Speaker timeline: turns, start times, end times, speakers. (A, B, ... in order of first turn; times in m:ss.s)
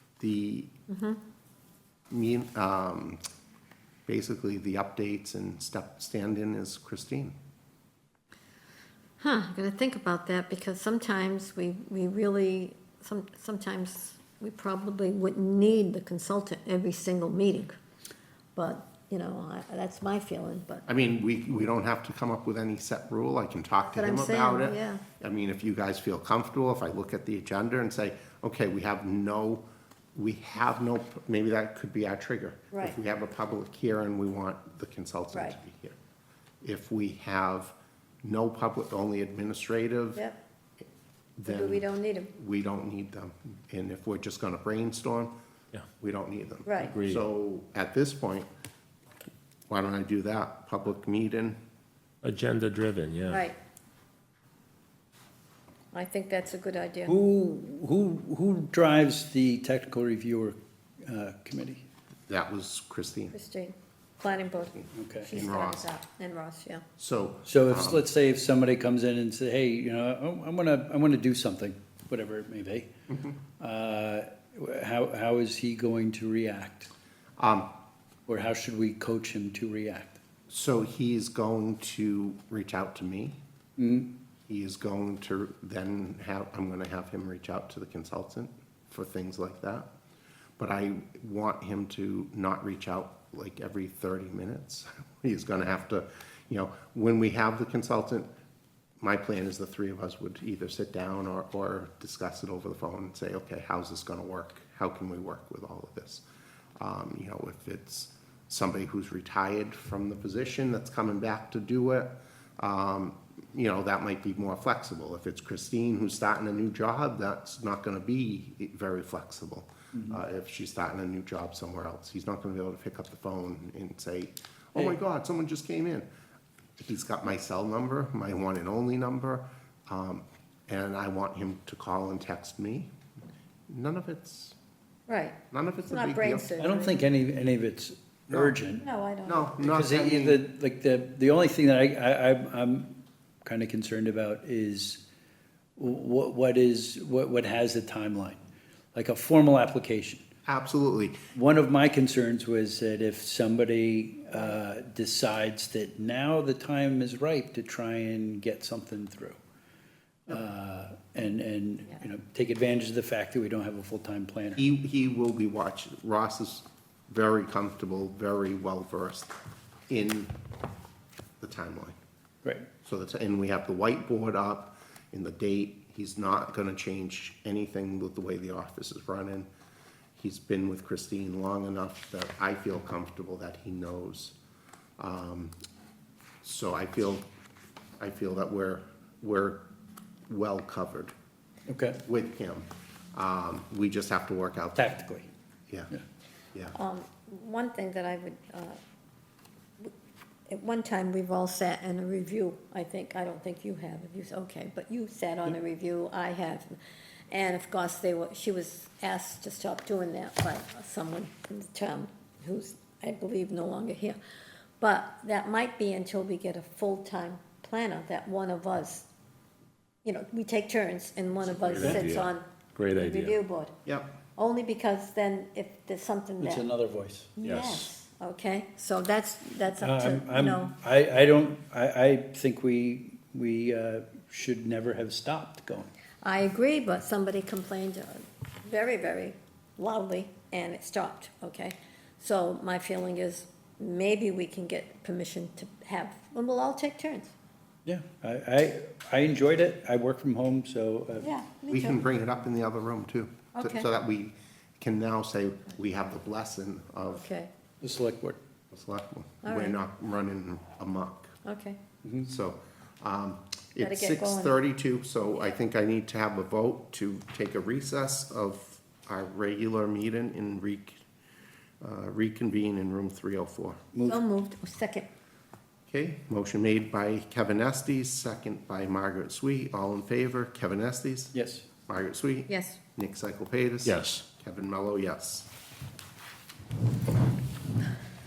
0:00.2-0:00.7 A
0:00.9-0:01.2 B
0:02.1-0:03.2 A
0:04.1-0:07.4 A
0:09.2-0:17.7 B
0:18.6-0:20.8 B
0:20.9-0:29.6 A
0:23.9-0:25.0 B
0:30.2-0:36.0 A
0:32.7-0:33.0 B
0:36.6-0:40.2 A
0:41.4-0:45.3 A
0:41.5-0:42.3 B
0:46.0-0:48.5 A
0:46.6-0:46.9 B
0:46.8-0:47.2 C
0:49.7-0:51.6 A
0:52.2-0:53.4 C
0:53.3-0:53.6 B
0:55.9-0:57.1 B
0:57.1-1:01.8 D
1:02.3-1:03.4 A
1:03.3-1:06.8 B
1:04.8-1:05.9 A
1:04.9-1:05.3 D
1:07.0-1:08.0 A
1:07.5-1:12.9 D
1:13.1-1:13.4 A
1:13.6-1:16.9 D
1:17.4-1:17.7 A
1:18.3-1:20.2 D
1:20.5-1:23.4 A
1:23.8-1:24.1 D
1:24.5-1:29.9 A
1:30.6-1:38.3 A
1:39.0-1:46.2 A
1:46.8-2:06.1 A
1:59.9-2:00.2 D
2:06.8-2:12.9 A
2:13.7-2:14.6 A
2:15.1-2:17.0 B
2:15.5-2:16.5 A
2:16.6-2:18.8 D
2:18.3-2:18.6 A
2:18.8-2:19.7 B
2:19.3-2:20.4 A
2:19.7-2:25.0 D
2:25.8-2:28.4 D
2:29.0-2:30.2 D
2:30.5-2:31.2 A
2:31.3-2:39.4 D
2:40.3-2:44.6 D
2:44.6-2:49.3 A
2:49.9-2:50.3 A
2:51.4-2:52.0 A
2:52.8-2:59.5 A
3:00.2-3:04.4 A
3:05.0-3:05.6 A
3:06.4-3:07.3 A
3:08.0-3:09.6 A
3:10.3-3:11.1 A
3:11.7-3:12.0 D
3:12.0-3:14.9 A
3:14.8-3:15.3 D
3:16.8-3:18.8 B
3:20.5-3:26.8 B
3:27.3-3:34.2 B
3:34.8-3:39.1 B
3:40.0-3:43.7 B
3:41.6-3:43.4 C
3:43.9-3:44.1 A
3:44.4-3:46.7 B
3:46.4-3:47.3 D
3:47.4-3:50.7 B
3:47.4-3:47.9 C
3:49.8-3:55.9 D
3:56.2-4:07.3 B
4:07.8-4:11.3 D
4:11.2-4:12.1 B
4:11.7-4:17.3 A
4:13.6-4:13.8 B
4:17.1-4:17.5 B
4:17.8-4:18.4 D
4:18.7-4:21.4 A
4:19.4-4:19.8 B
4:21.4-4:21.8 B
4:22.2-4:31.0 A
4:23.8-4:24.6 B
4:31.8-4:33.8 A
4:33.9-4:34.2 D
4:34.0-4:35.1 B
4:35.9-4:41.3 A
4:41.3-4:41.7 D
4:41.9-4:45.5 A
4:42.5-4:42.8 B
4:43.8-4:44.2 C